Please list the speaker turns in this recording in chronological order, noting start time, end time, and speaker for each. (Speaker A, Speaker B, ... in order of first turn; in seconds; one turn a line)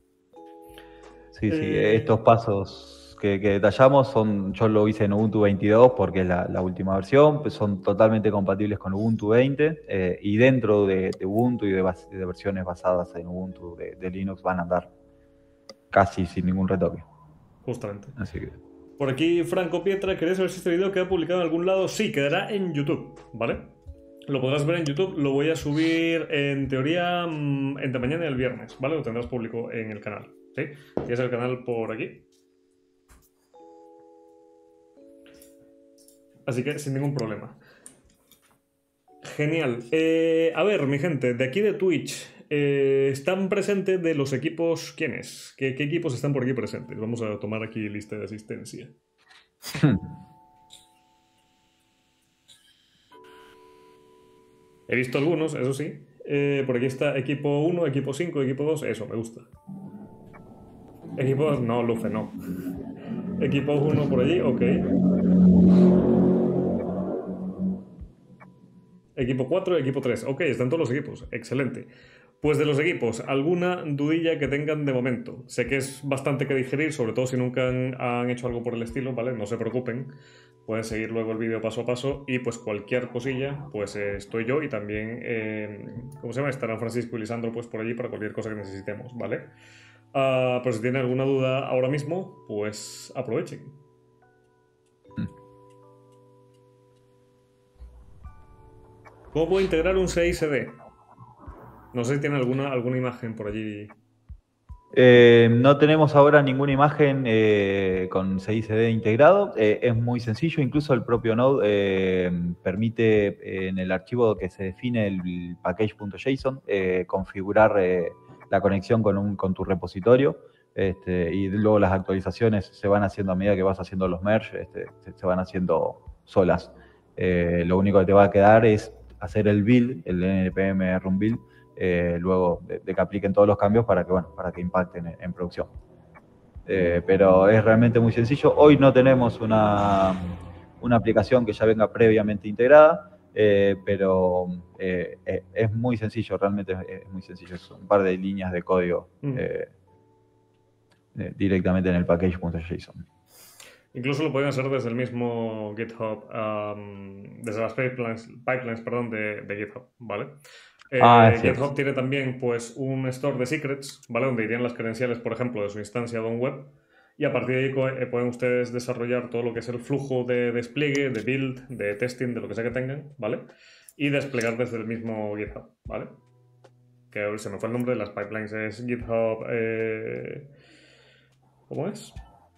Speaker A: 1.3-14.9
Speaker B: 1.5-2.1
Speaker A: 15.9-17.1
Speaker B: 17.6-18.2
Speaker A: 18.2-18.6
Speaker B: 19.0-23.7
Speaker B: 24.3-32.2
Speaker B: 36.5-37.6
Speaker B: 39.2-49.0
Speaker A: 49.7-50.0
Speaker B: 54.9-59.5
Speaker B: 61.1-62.4
Speaker B: 63.4-64.8
Speaker B: 69.2-71.9
Speaker B: 72.4-80.1
Speaker B: 80.7-89.5
Speaker B: 90.1-93.8
Speaker B: 99.3-100.7
Speaker B: 101.9-104.0
Speaker A: 104.9-135.7
Speaker A: 136.7-149.7
Speaker A: 151.1-153.0
Speaker B: 153.9-160.4
Speaker B: 160.9-176.2
Speaker A: 161.0-161.6
Speaker B: 177.1-180.5
Speaker B: 181.7-182.2